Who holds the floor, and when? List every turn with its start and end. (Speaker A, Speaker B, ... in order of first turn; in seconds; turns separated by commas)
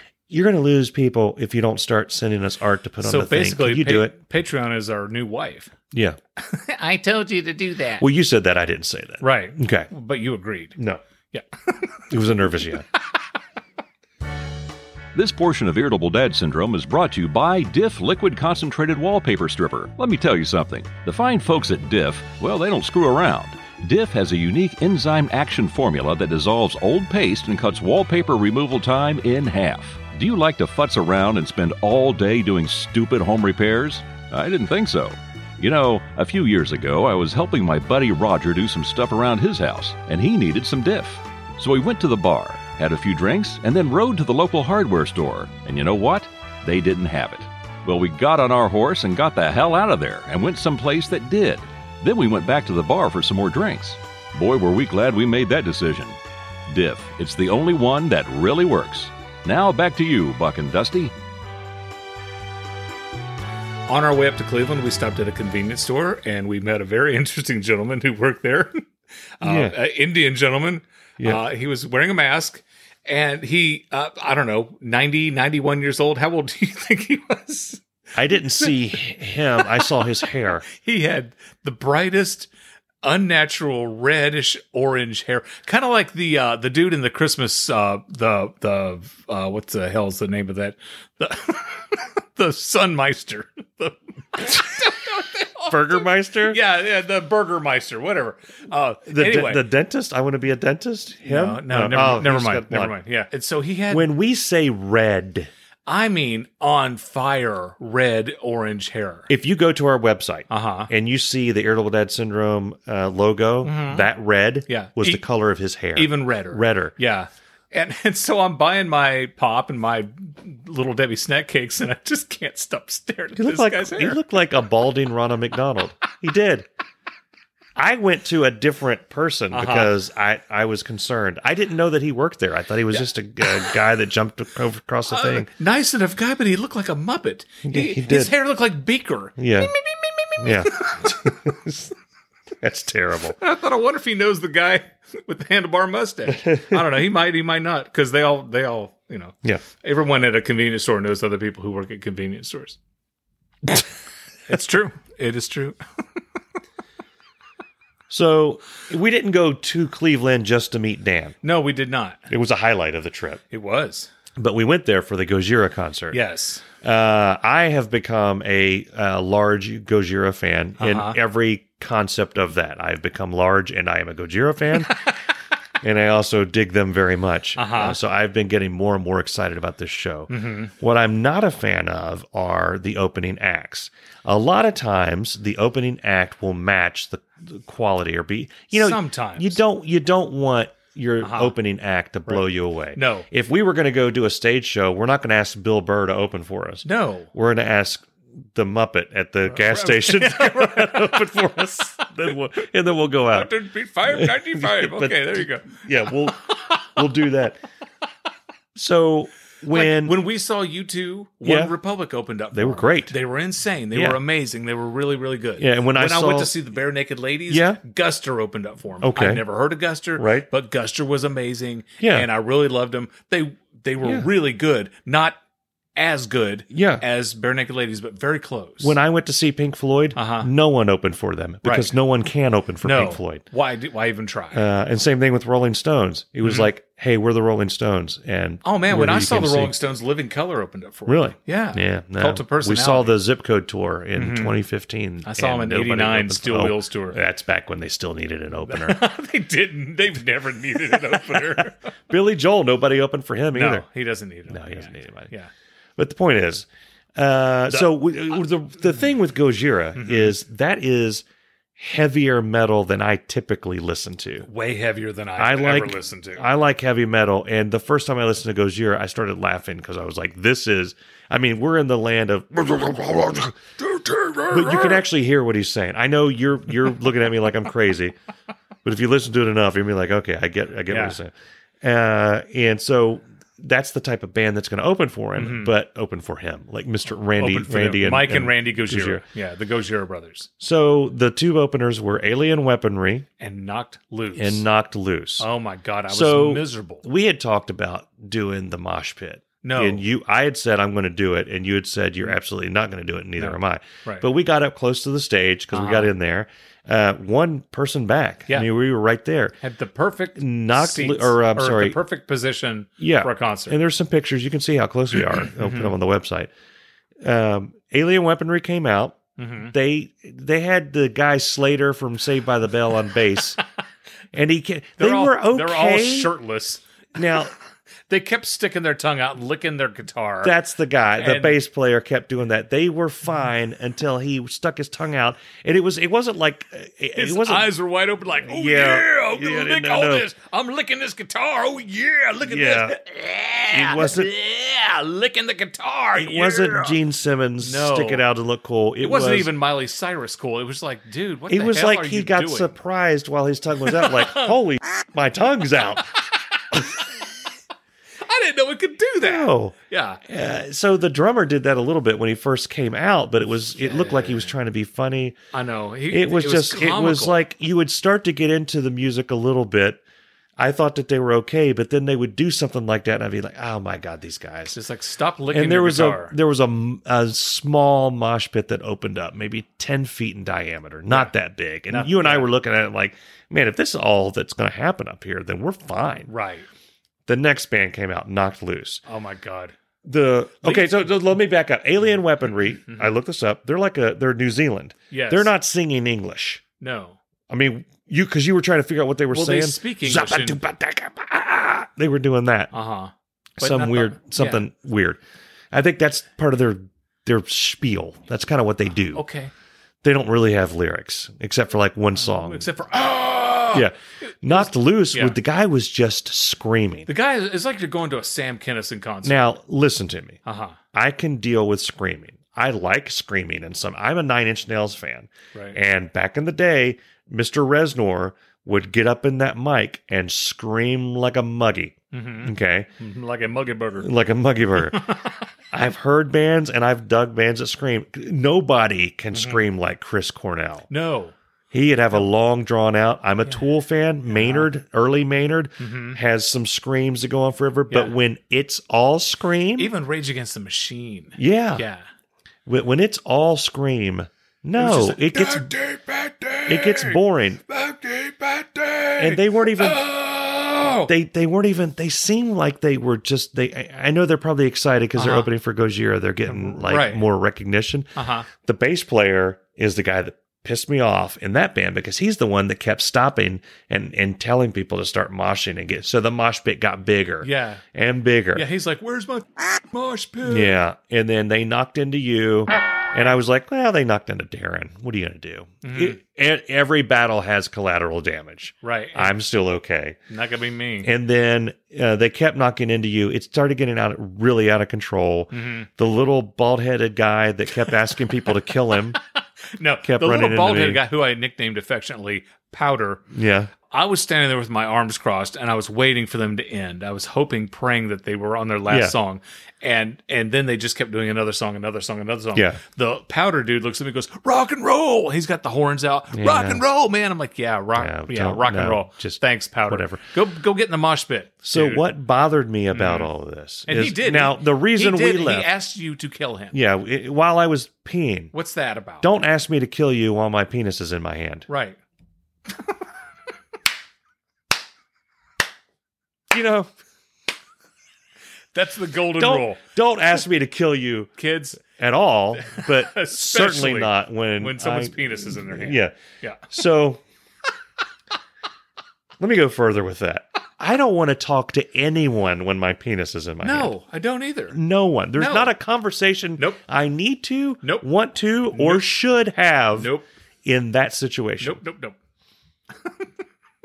Speaker A: 0.3-4.2, Speaker B: 3.0-5.7, Speaker A: 5.9-6.2, Speaker B: 6.4-8.0, Speaker A: 8.0-9.9, Speaker B: 9.2-10.8, Speaker A: 10.8-11.0, Speaker A: 12.1-12.9, Speaker C: 15.1-56.2, Speaker C: 56.7-61.1, Speaker B: 63.9-68.8, Speaker B: 69.4-77.8, Speaker A: 69.4-69.8, Speaker A: 78.2-80.6, Speaker B: 79.6-80.0, Speaker B: 80.7-82.5, Speaker B: 83.0-99.6, Speaker A: 95.7-96.6, Speaker A: 99.1-103.0, Speaker B: 101.2-104.1, Speaker A: 103.9-105.5, Speaker B: 105.9-109.3, Speaker A: 109.3-117.0, Speaker B: 110.5-110.9, Speaker B: 113.6-114.1, Speaker B: 114.7-115.2, Speaker B: 116.0-124.2, Speaker A: 123.4-126.7, Speaker A: 127.8-135.5, Speaker B: 129.5-129.9, Speaker B: 135.1-141.3, Speaker A: 137.7-138.3, Speaker A: 139.4-139.7, Speaker A: 140.4-141.9, Speaker A: 142.6-143.4, Speaker B: 143.4-152.8, Speaker A: 146.3-146.8, Speaker B: 154.5-155.8, Speaker A: 158.1-161.4, Speaker B: 161.4-162.3, Speaker A: 162.3-163.4, Speaker B: 163.5-164.1, Speaker A: 164.4-166.2, Speaker B: 166.1-166.6, Speaker A: 166.8-175.0, Speaker B: 170.8-171.2, Speaker B: 174.9-175.2, Speaker A: 175.8-203.5, Speaker B: 177.6-178.0, Speaker B: 180.3-180.7, Speaker B: 188.7-189.6, Speaker B: 191.2-191.6, Speaker B: 192.3-193.3, Speaker B: 196.8-197.3, Speaker B: 199.5-201.3, Speaker B: 203.3-206.8, Speaker A: 204.1-207.6, Speaker A: 208.8-210.2, Speaker B: 209.7-225.4, Speaker A: 211.4-211.7, Speaker A: 212.5-213.2, Speaker A: 213.9-214.2, Speaker A: 215.6-216.5, Speaker A: 217.5-217.8, Speaker A: 219.0-219.4, Speaker A: 220.2-220.5, Speaker A: 222.0-222.3, Speaker B: 226.0-229.0, Speaker A: 226.7-227.0, Speaker A: 228.8-233.4, Speaker B: 230.2-230.5, Speaker B: 231.6-231.9, Speaker B: 232.8-234.7, Speaker A: 234.5-239.7, Speaker B: 236.4-236.7, Speaker B: 238.6-243.2, Speaker A: 241.1-249.1, Speaker B: 244.2-244.6, Speaker B: 245.2-247.2, Speaker B: 248.7-251.8, Speaker A: 250.9-253.9, Speaker B: 253.5-255.5, Speaker A: 254.5-255.3, Speaker A: 256.0-261.2, Speaker B: 259.9-260.4, Speaker A: 261.8-264.5, Speaker B: 264.4-266.5, Speaker A: 265.4-273.6, Speaker B: 273.9-275.0, Speaker A: 274.5-278.1, Speaker A: 278.8-289.2, Speaker B: 280.9-281.2, Speaker B: 285.4-285.7, Speaker B: 287.4-290.5, Speaker A: 290.6-293.3, Speaker B: 293.4-294.6, Speaker A: 294.4-295.5, Speaker B: 295.4-297.0, Speaker A: 296.1-309.6, Speaker B: 299.6-300.0, Speaker B: 303.4-304.3, Speaker B: 305.7-306.1, Speaker B: 309.6-313.8, Speaker A: 310.4-312.0, Speaker A: 313.0-316.5, Speaker B: 315.5-315.9, Speaker A: 317.2-323.6, Speaker B: 319.4-319.7, Speaker A: 324.3-326.3, Speaker B: 325.0-326.8, Speaker A: 327.1-327.5, Speaker B: 328.1-330.5, Speaker A: 330.4-337.7, Speaker B: 331.2-331.6, Speaker B: 337.1-347.0, Speaker A: 338.4-340.3, Speaker A: 342.4-343.0, Speaker A: 343.7-344.3, Speaker A: 346.2-349.5, Speaker B: 347.6-348.2, Speaker B: 349.0-352.7, Speaker A: 351.5-356.2, Speaker B: 353.9-354.6, Speaker B: 356.7-357.1, Speaker B: 358.2-360.2, Speaker A: 359.2-359.8, Speaker A: 360.3-365.4, Speaker B: 363.8-364.5, Speaker B: 365.5-367.4, Speaker A: 366.1-370.0, Speaker A: 370.6-374.8, Speaker B: 374.7-376.4, Speaker A: 375.5-386.3, Speaker B: 381.9-382.5, Speaker B: 386.3-386.7, Speaker A: 387.3-389.0, Speaker B: 389.1-389.7, Speaker A: 390.1-396.6, Speaker B: 390.6-391.1, Speaker B: 392.9-393.1, Speaker B: 395.1-395.5, Speaker B: 396.8-397.2, Speaker A: 397.5-402.7, Speaker B: 399.3-400.6, Speaker B: 402.7-404.6, Speaker A: 403.6-405.2, Speaker A: 405.7-409.2, Speaker B: 409.1-409.5, Speaker A: 410.0-412.7, Speaker B: 412.2-413.9, Speaker A: 413.7-417.1, Speaker B: 414.4-415.4, Speaker B: 417.1-419.6, Speaker A: 419.2-420.4, Speaker B: 420.4-420.8, Speaker A: 420.9-432.9, Speaker B: 432.1-434.1, Speaker A: 434.0-435.1, Speaker B: 434.9-435.3, Speaker A: 435.7-440.9, Speaker B: 439.3-439.6, Speaker B: 440.9-441.3, Speaker A: 441.7-449.9, Speaker B: 444.3-444.7, Speaker B: 445.8-446.2, Speaker B: 447.9-448.2, Speaker B: 449.8-452.0, Speaker A: 451.4-451.8, Speaker A: 452.7-455.7, Speaker B: 454.8-461.1, Speaker A: 456.7-457.6, Speaker A: 459.2-460.0, Speaker A: 461.1-478.7, Speaker B: 465.2-465.5, Speaker B: 466.5-467.2, Speaker B: 468.1-468.5, Speaker B: 477.4-477.8, Speaker B: 478.5-480.8, Speaker A: 480.4-490.2, Speaker B: 485.8-486.2, Speaker B: 488.8-489.3, Speaker B: 490.3-491.1, Speaker A: 491.0-499.2, Speaker B: 495.5-495.9, Speaker B: 499.8-503.3, Speaker A: 500.0-501.0, Speaker A: 503.3-503.7, Speaker B: 503.9-522.0, Speaker A: 508.9-509.1, Speaker A: 512.5-512.8, Speaker A: 516.3-516.8, Speaker A: 518.0-520.2, Speaker A: 521.6-525.7, Speaker B: 522.9-523.3, Speaker B: 523.9-526.8, Speaker A: 526.7-528.5, Speaker B: 528.5-529.3, Speaker A: 529.2-531.7, Speaker B: 531.7-532.0, Speaker A: 536.5-536.9, Speaker B: 538.7-539.8, Speaker A: 539.4-546.1, Speaker B: 541.4-541.8, Speaker B: 542.6-546.7, Speaker A: 546.7-547.2, Speaker A: 549.4-553.9, Speaker B: 553.6-554.8, Speaker A: 554.7-560.1, Speaker B: 555.4-555.7, Speaker B: 557.8-558.1, Speaker B: 558.7-559.0, Speaker B: 560.0-560.3, Speaker A: 560.6-561.8, Speaker B: 561.6-562.1